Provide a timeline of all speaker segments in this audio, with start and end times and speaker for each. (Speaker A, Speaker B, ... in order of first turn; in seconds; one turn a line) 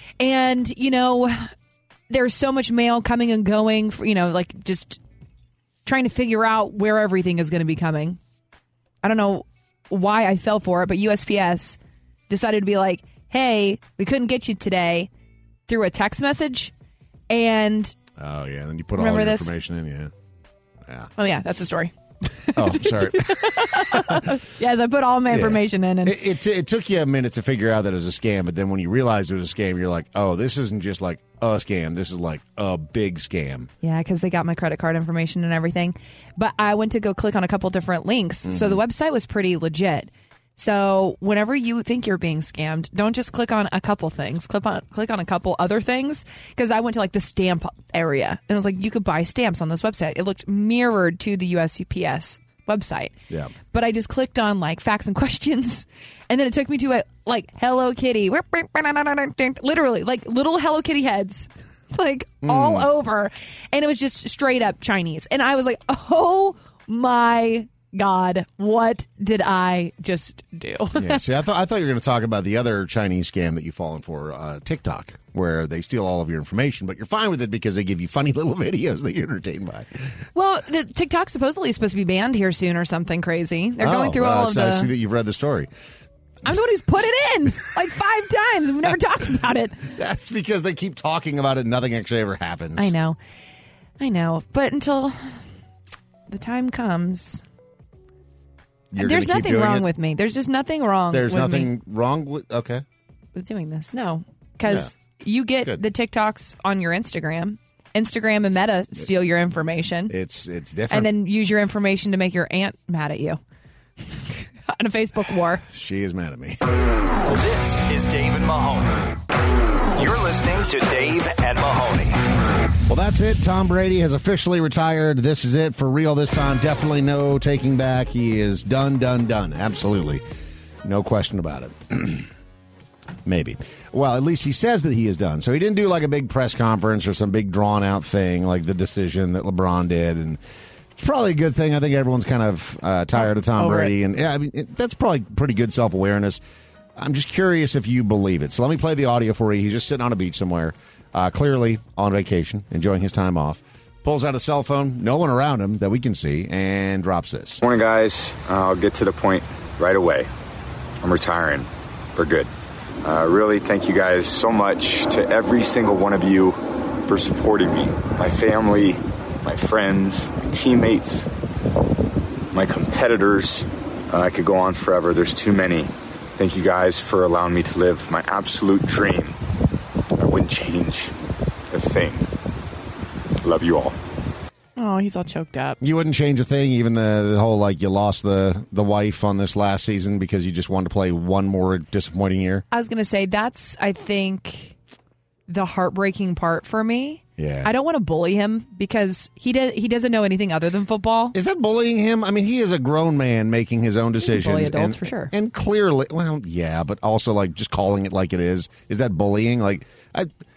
Speaker A: 0.2-1.5
Speaker A: 2.1-5.0
Speaker A: 5.8-8.2
Speaker A: 9.0-11.8
Speaker A: 12.3-15.1
Speaker A: 15.7-16.7
Speaker A: 17.3-17.9
Speaker B: 18.2-20.1
Speaker A: 19.0-19.5
Speaker B: 20.9-21.1
Speaker A: 21.2-26.2
Speaker B: 22.6-24.2
Speaker B: 25.3-33.7
Speaker A: 33.8-53.1
Speaker B: 38.4-38.8
Speaker A: 53.7-71.2
Speaker B: 62.4-62.9
Speaker B: 71.0-80.1
Speaker A: 80.3-84.9
Speaker B: 83.8-85.7
Speaker A: 86.5-89.9
Speaker B: 90.0-92.9
Speaker A: 92.8-93.2
Speaker A: 94.0-95.4
Speaker A: 96.3-97.4
Speaker B: 98.9-99.9
Speaker A: 99.0-101.7
Speaker B: 101.1-102.8
Speaker A: 103.3-110.1
Speaker B: 104.7-104.9
Speaker B: 110.1-111.1
Speaker A: 110.9-113.4
Speaker A: 114.7-115.6
Speaker B: 115.7-116.6
Speaker C: 117.3-119.0
Speaker C: 120.0-122.2
Speaker B: 122.9-130.2
Speaker B: 130.8-132.3
Speaker B: 133.2-140.4
Speaker B: 141.0-146.4
Speaker A: 143.2-143.9
Speaker B: 147.0-157.6
Speaker D: 157.6-160.3
Speaker D: 161.0-162.5
Speaker D: 163.0-171.3
Speaker D: 172.5-179.4
Speaker D: 180.2-181.1
Speaker D: 181.7-182.3
Speaker D: 183.4-184.0
Speaker A: 184.8-185.8
Speaker B: 185.8-192.7
Speaker A: 192.7-194.8
Speaker A: 195.5-201.3
Speaker B: 197.4-197.7
Speaker B: 201.3-210.3
Speaker A: 204.2-205.3